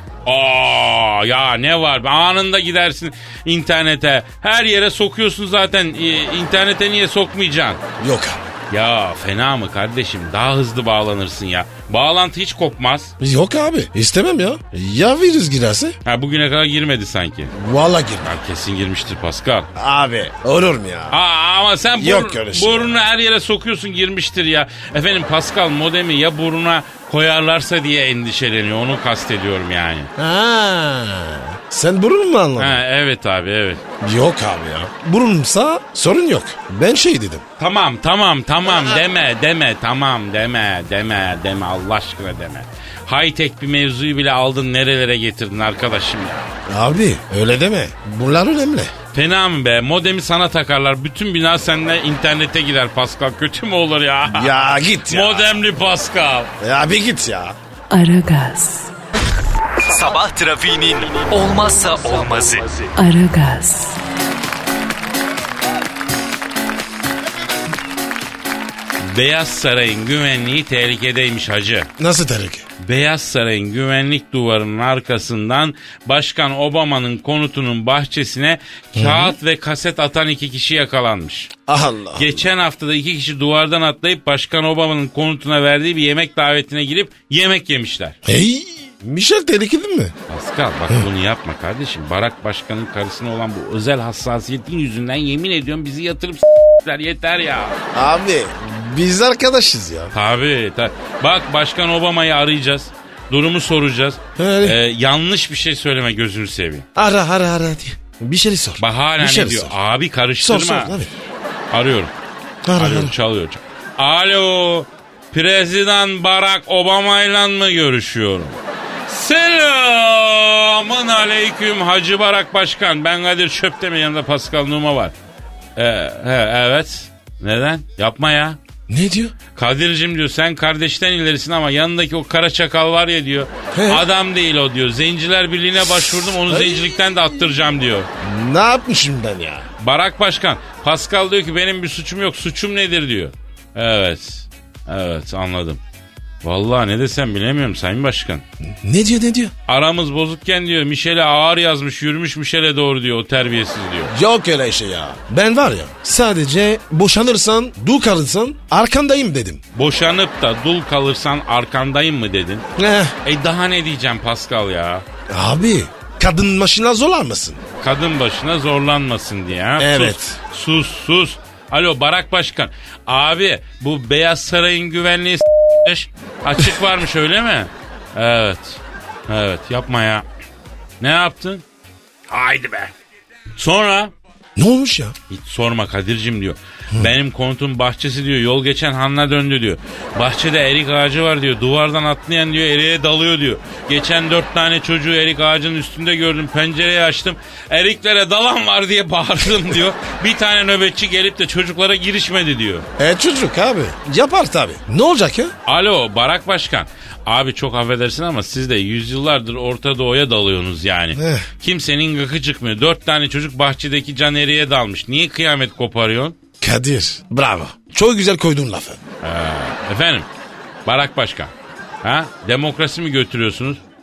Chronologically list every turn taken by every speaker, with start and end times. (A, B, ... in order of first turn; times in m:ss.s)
0:00.2-0:07.8 A
0:08.0-0:08.4 B
0:08.7-0:13.1 A
0:13.2-0:16.0 B
0:16.0-0:17.5 A
0:17.5-0:18.4 B
0:18.2-0:19.7 A
0:19.7-0:21.2 B
0:21.1-0:30.1 A
0:22.0-0:23.0 B
0:30.2-0:32.8 B
0:32.6-0:33.8 A
0:34.0-0:37.4 B
0:37.6-0:46.5 A
0:38.7-0:39.0 B
0:46.7-0:48.9 B
0:49.1-0:54.5 A
0:54.2-0:55.5 B
0:55.0-0:56.5 A
0:56.6-0:57.6 B
0:57.9-0:58.9 C
0:59.8-1:02.9 D
1:02.9-1:04.0 C
1:09.0-1:11.9 A
1:12.0-1:12.6 B
1:12.8-1:21.5 A
1:19.0-1:19.4 B
1:21.7-1:22.4 B
1:22.2-1:28.2 A
1:28.2-1:30.1 B
1:30.3-1:37.8 A
1:37.9-1:40.1 B
1:40.1-1:46.8 A
1:44.4-1:44.8 B
1:47.0-1:49.7 B
1:48.8-1:51.0 A
1:50.4-1:51.1 B
1:51.7-1:52.1 A
1:52.6-1:53.1 B
1:52.8-2:05.1 A
2:05.8-2:08.6 A
2:08.9-2:09.3 B
2:09.5-2:18.1 A
2:13.7-2:14.0 B
2:16.5-2:16.9 B
2:18.2-2:19.7 B
2:19.8-2:25.8 A
2:26.4-2:28.4 A
2:28.6-2:29.5 B
2:29.7-2:34.1 A
2:34.1-2:39.6 B
2:39.7-2:42.6 A
2:42.8-2:43.1 B
2:43.2-2:45.0 A
2:45.3-2:47.6 B
2:47.8-3:00.2 A
2:49.8-2:50.4 B
3:01.0-3:01.6 A
3:02.3-3:02.9 A
3:03.6-3:04.1 A
3:04.6-3:05.1 B
3:05.3-3:22.9 A
3:23.0-3:25.5 B
3:25.6-3:36.4 A
3:31.1-3:31.5 B
3:36.6-3:39.0 B
3:39.2-3:40.3 A
3:40.8-3:43.8 A